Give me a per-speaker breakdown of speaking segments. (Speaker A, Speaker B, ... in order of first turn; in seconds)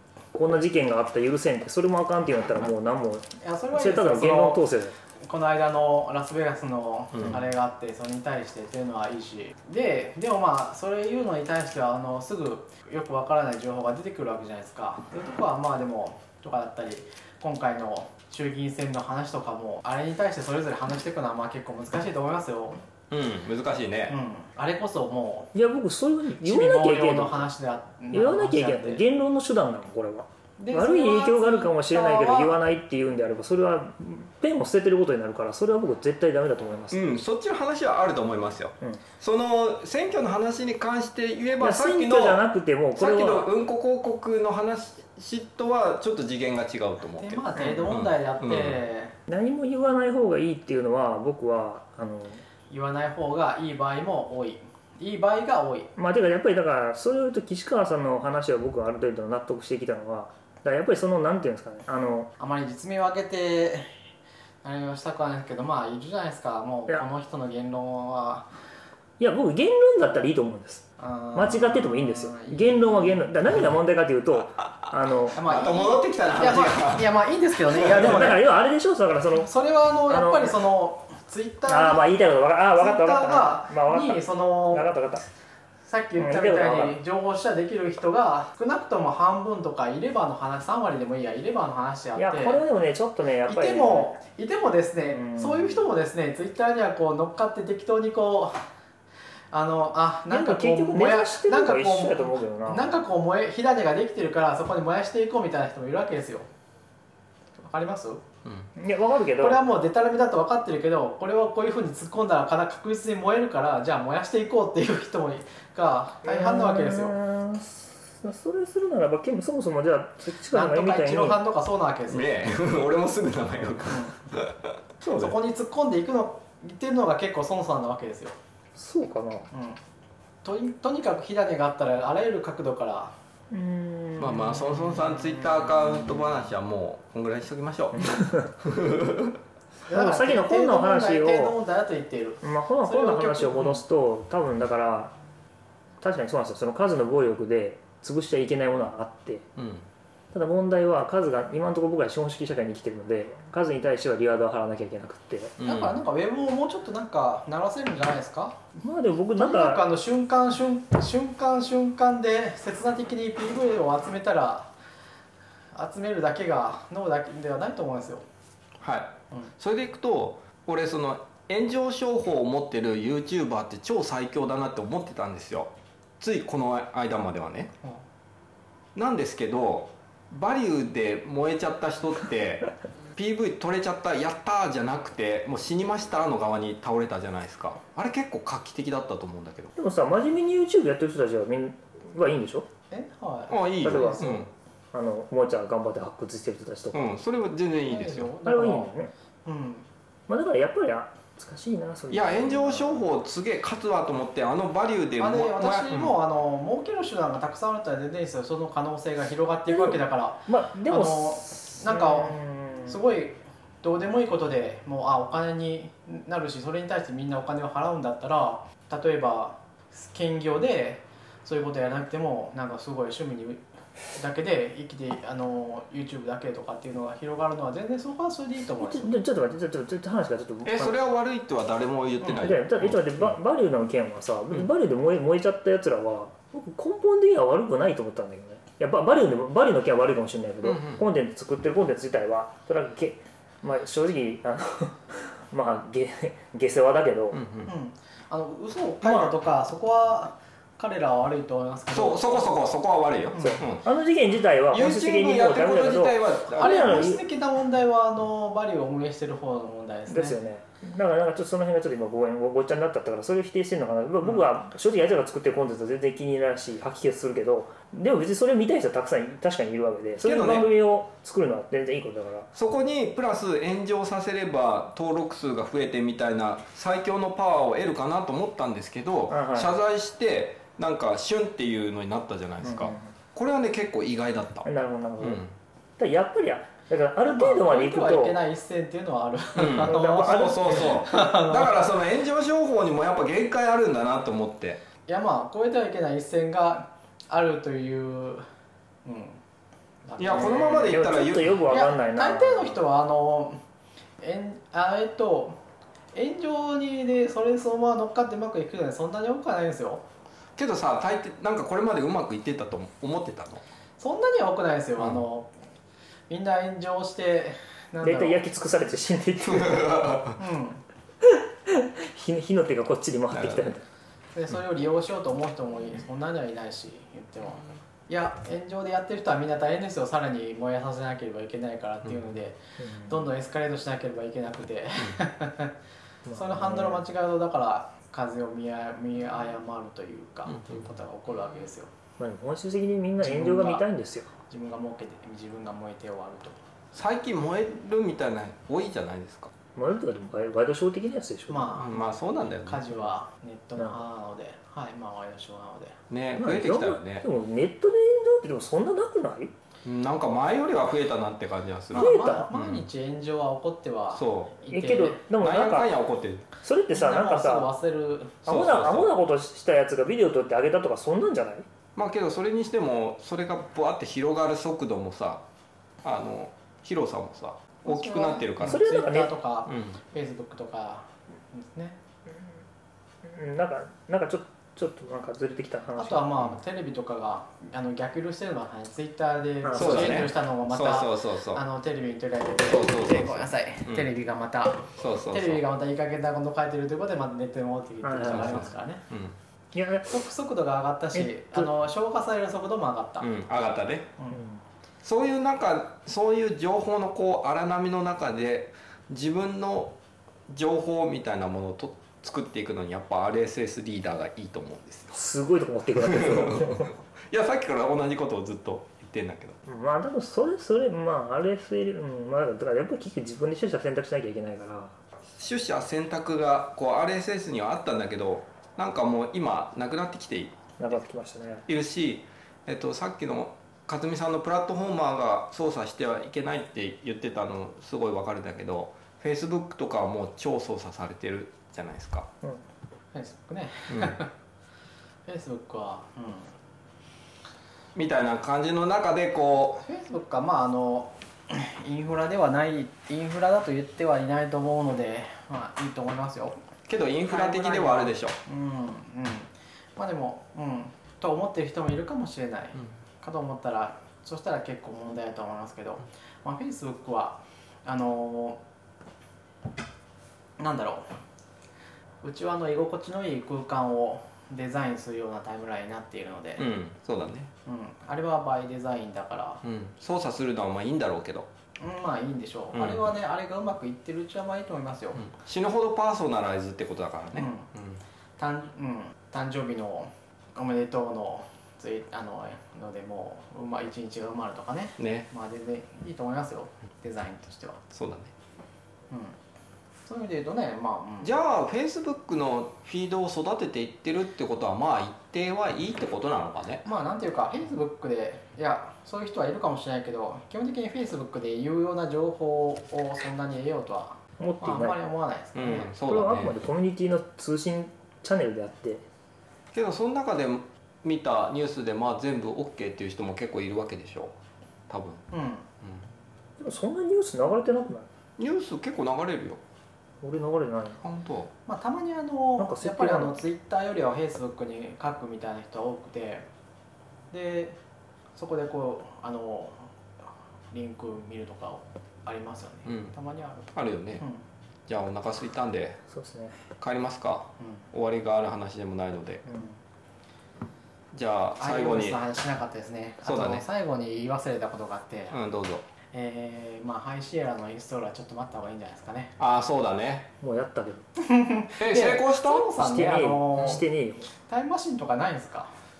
Speaker A: 0.3-5.0, 25.5-27.5, 28.1-37.1, 41.6-43.5, 47.6-47.9, 49.3-52.4, 56.0-62.3, 69.2-75.4, 77.8-79.5, 80.1-80.5, 81.7-85.3, 86.2-87.0, 92.2-94.2, 95.1-95.7, 100.3-102.9, 108.8-109.6, 116.2-121.4, 128.8-129.5, 133.5-134.7, 138.0-138.4, 139.9-141.6, 142.4-145.2, 146.0-149.5, 150.3-155.6, 158.8-159.8, 189.8-192.7, 193.8-194.4, 194.9-197.1, 198.4-199.1, 200.3-203.1, 209.7-213.0, 228.8-231.0, 232.4-247.4, 249.0-249.3, 253.4-257.2, 260.1-272.5, 279.3-279.7, 282.6-283.1, 284.6-285.4, 286.0-288.4, 289.6-291.1, 300.4-302.8, 318.0-320.2, 321.2-323.9, 332.8-333.2, 336.3-337.0, 342.2-344.3, 349.8-351.8, 356.4-359.5, 362.0-362.5, 364.7-365.9, 366.6-367.7, 368.5-371.7, 378.6-379.3, 383.2-386.3, 389.7-390.3, 398.0-398.7, 399.8-400.2, 401.1-401.7, 404.3-404.6, 415.1-416.9, 419.7-424.9, 430.8-431.7, 514.4-515.0, 515.9-519.0, 526.6-528.1, 530.2-531.0, 532.6-533.4, 546.1-546.6, 560.4-561.1, 562.8-564.3
Speaker B: 3.4-4.6, 5.2-22.8, 24.1-25.5, 26.4-29.0, 30.6-32.6, 47.2-49.2, 52.7-55.9, 62.4-64.0, 64.6-68.5, 71.0-73.7, 75.3-78.5, 79.3-82.1, 82.8-84.9, 85.8-92.6, 93.5-98.6, 99.5-106.5, 107.6-108.2, 109.4-117.2, 120.5-122.5, 123.9-124.2, 125.1-128.4, 129.5-129.8, 130.4-133.1, 139.9-143.8, 155.6-158.6, 159.4-164.7, 165.7-168.2, 192.9-194.2, 197.9-199.9, 205.2-223.6, 224.2-229.2, 247.7-252.5, 253.3-253.6, 256.6-260.4, 287.2-291.9, 295.1-298.5, 299.1-299.4, 300.1-301.0, 301.7-303.6, 304.2-305.6, 306.1-310.1, 314.0-315.5, 316.3-318.4, 320.4-320.8, 324.4-335.8, 336.4-341.9, 343.2-343.8, 344.5-346.6, 351.5-356.0, 361.9-365.2, 366.9-368.5, 377.9-382.0, 385.9-399.1, 400.1-403.3, 443.1-444.3, 445.3-446.5, 449.8-456.6, 457.2-468.6, 470.6-471.1, 472.2-476.7, 477.7-479.6, 481.8-485.3, 487.4-487.7, 488.4-497.8, 499.1-499.4, 500.1-501.3, 506.9-515.9, 525.3-525.7, 531.7-536.5, 537.3-537.8, 538.4-539.9, 540.7-544.4, 547.6-547.9, 551.6-555.4, 556.1-559.4, 561.2-563.9, 564.4-565.7
Speaker C: 7.2-7.4, 23.1-24.2, 36.9-42.4, 43.0-48.8, 75.3-77.1, 122.1-125.4, 134.2-139.4, 149.6-149.9, 155.6-155.9, 168.8-177.7, 178.9-189.8, 193.5-194.5, 196.9-198.3, 202.1-206.2, 230.7-233.3, 240.6-241.0, 247.3-247.7, 251.9-253.8, 254.7-257.1, 270.2-270.7, 272.5-284.7, 285.2-285.5, 289.6-294.8, 300.2-301.6, 310.6-313.6, 319.4-320.4, 323.3-323.7, 340.5-340.8, 346.9-349.5, 351.8-352.9, 356.1-357.2, 359.9-362.8, 364.1-364.6, 365.4-366.5, 368.5-369.1, 372.0-375.4, 376.0-378.8, 379.7-380.0, 389.7-391.6, 392.7-394.1, 395.0-395.6, 398.2-399.4, 403.2-404.1, 405.0-410.0, 410.5-415.1, 416.0-419.6, 425.4-430.6, 431.7-442.3, 443.9-444.2, 447.9-449.9, 456.9-458.4, 476.6-477.5, 479.6-481.5, 482.7-483.0, 485.2-488.0, 495.0-495.3, 497.9-498.3, 501.2-506.9, 515.6-516.6, 519.7-524.3, 524.9-525.2, 528.4-529.6, 531.0-531.5, 542.9-543.1, 543.7-544.3, 544.9-546.0, 546.8-549.4, 551.1-552.2, 553.2-553.6, 555.3-555.9, 559.4-560.3, 561.8-562.7